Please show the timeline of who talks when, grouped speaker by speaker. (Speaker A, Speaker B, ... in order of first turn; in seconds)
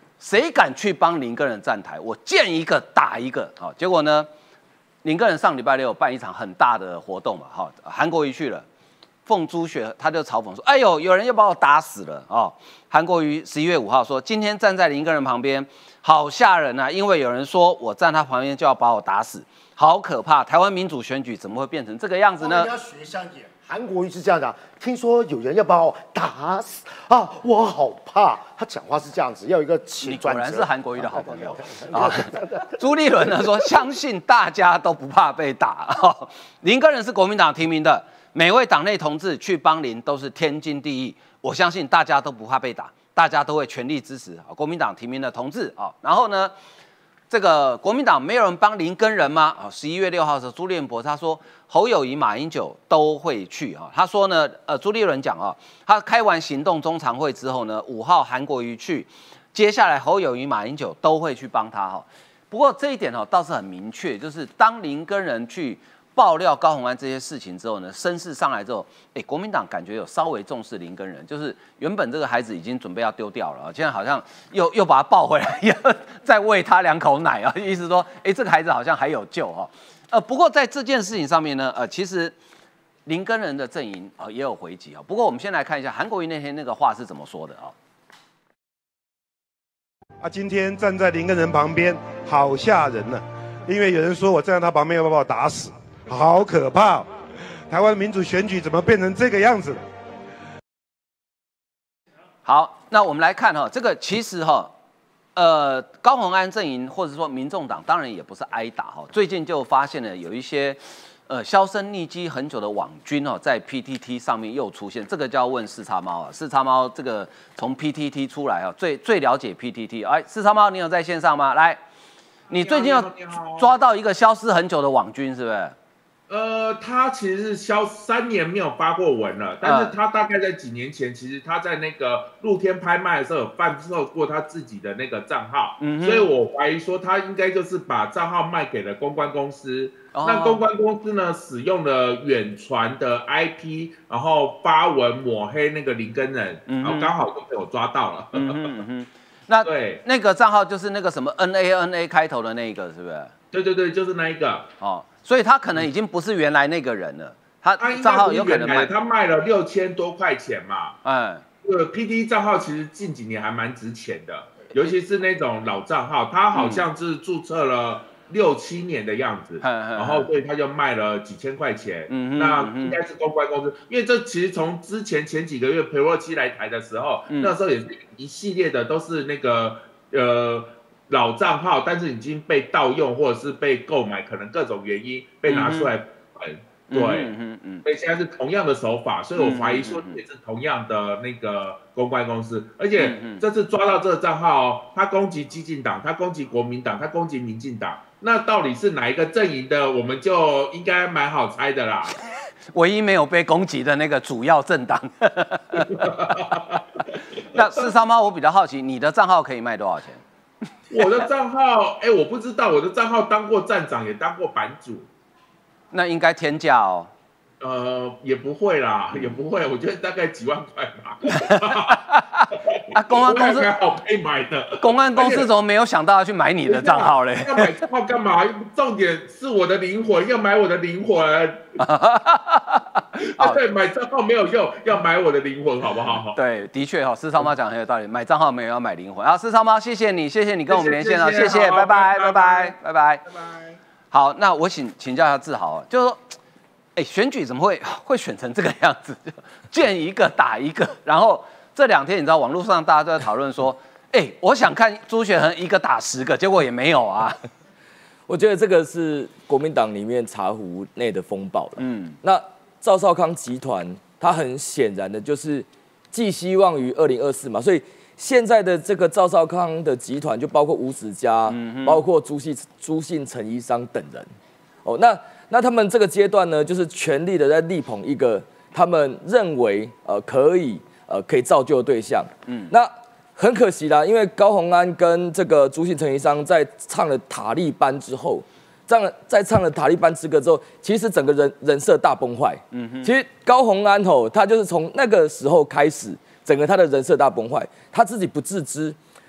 Speaker A: 0.2-4.3, 5.0-8.6, 9.2-22.7, 30.0-46.5, 47.3-82.3, 83.0-87.7, 102.5-104.7, 105.3-121.8, 122.5-125.7, 129.6-129.9, 135.8-136.3, 140.1-140.6, 146.7-147.1, 148.3-153.3, 154.8-158.9, 161.0-161.4, 166.5-166.8, 169.6-170.3, 172.1-173.0, 185.5-185.9, 186.9-187.8, 189.4-190.2, 193.0-193.4, 202.7-206.2, 207.5-210.2, 215.9-217.1, 221.3-223.7, 224.8-227.7, 231.8-233.6, 236.3-243.2, 244.1-246.3, 246.9-257.4, 261.8-262.2, 271.5-272.0, 282.4-282.7, 292.7-293.1
Speaker B: 22.4-32.8
Speaker C: 90.2-97.1, 97.7-99.8
Speaker D: 122.5-123.7, 126.3-148.7, 149.6-150.0, 153.5-154.7, 157.8-161.0, 161.6-187.3, 187.8-202.1, 205.8-206.8, 210.9-215.1, 217.6-225.5, 226.7-231.6, 233.2-236.4, 240.7-242.7, 243.2-243.8
Speaker E: 258.3-274.3, 274.8-298.9